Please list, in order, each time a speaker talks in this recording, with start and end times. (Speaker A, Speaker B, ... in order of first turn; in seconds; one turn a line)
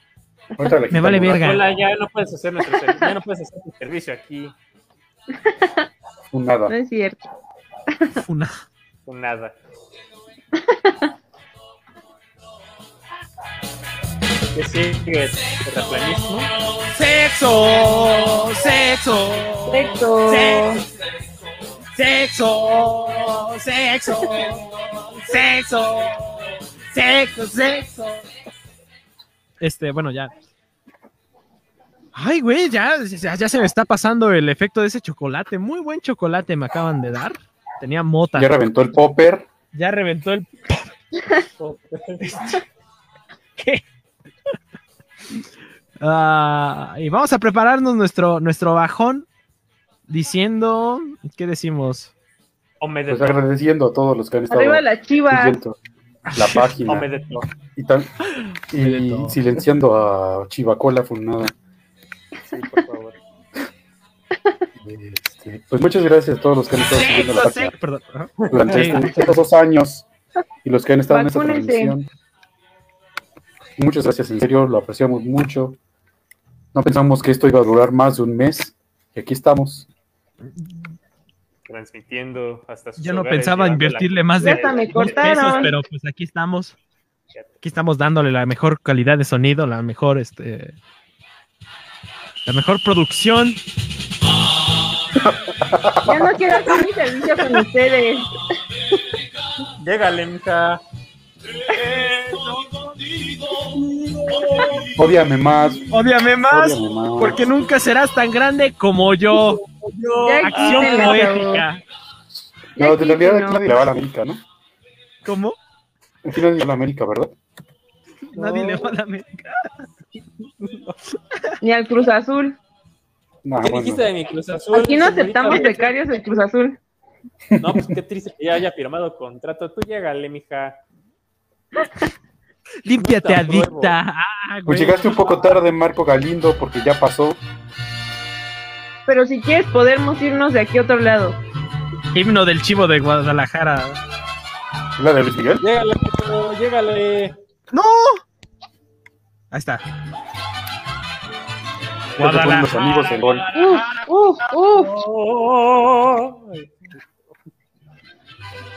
Speaker A: 0.6-1.6
Speaker B: 0.9-1.6
Speaker C: 1.4-4.5
Speaker D: 5.5-5.8
Speaker A: 6.3-6.7
Speaker D: 6.7-7.2
Speaker B: 8.2-8.6
Speaker C: 9.1-9.6
Speaker D: 10.6-11.1
Speaker C: 14.6-16.5
Speaker B: 16.8-20.8
Speaker D: 19.7-20.8
Speaker B: 21.9-24.6
Speaker B: 25.2-28.2
Speaker B: 29.6-30.3
Speaker B: 32.1-38.5
Speaker A: 38.3-39.5
Speaker B: 39.7-40.9
Speaker C: 41.6-42.6
Speaker B: 42.2-42.6
Speaker B: 43.6-43.8
Speaker B: 46.0-49.3
Speaker B: 50.1-52.1
Speaker C: 52.8-53.4
Speaker A: 53.1-55.8
Speaker D: 54.5-55.6
Speaker B: 56.3-56.6
Speaker A: 56.3-57.1
Speaker C: 56.8-57.5
Speaker A: 57.8-58.1
Speaker B: 58.4-59.4
Speaker A: 58.7-61.5
Speaker C: 62.5-63.2
Speaker A: 64.8-67.7
Speaker B: 66.9-69.3
Speaker C: 68.4-69.0
Speaker A: 68.5-70.0
Speaker A: 70.6-72.1
Speaker D: 71.1-71.9
Speaker A: 73.8-75.8
Speaker A: 76.7-79.9
Speaker C: 81.7-85.7
Speaker B: 83.0-86.7
Speaker D: 84.4-85.7
Speaker B: 87.6-90.8
Speaker B: 92.5-93.6
Speaker A: 95.2-96.3
Speaker D: 96.0-98.3
Speaker C: 99.8-100.8
Speaker C: 101.7-105.0
Speaker A: 105.0-105.9
Speaker B: 105.9-109.6
Speaker A: 106.5-107.4
Speaker C: 109.3-111.4
Speaker D: 110.2-111.6
Speaker B: 110.4-111.8
Speaker A: 112.7-114.4
Speaker D: 112.8-113.6
Speaker B: 115.2-115.5
Speaker A: 116.2-117.3
Speaker B: 118.3-119.7
Speaker C: 118.3-118.9
Speaker C: 120.6-120.9
Speaker D: 121.6-122.6
Speaker A: 123.4-124.1
Speaker C: 123.6-125.9
Speaker D: 124.7-126.8
Speaker A: 127.5-127.9
Speaker C: 127.6-130.8
Speaker B: 132.8-135.2
Speaker C: 133.0-133.9
Speaker A: 134.7-137.4
Speaker D: 139.1-141.4
Speaker B: 142.1-144.0
Speaker A: 145.0-145.7
Speaker C: 145.6-147.3
Speaker B: 147.7-148.2
Speaker B: 149.5-149.8
Speaker A: 152.2-153.4
Speaker B: 152.2-154.1
Speaker C: 152.7-153.4
Speaker D: 153.5-154.9
Speaker C: 154.7-156.9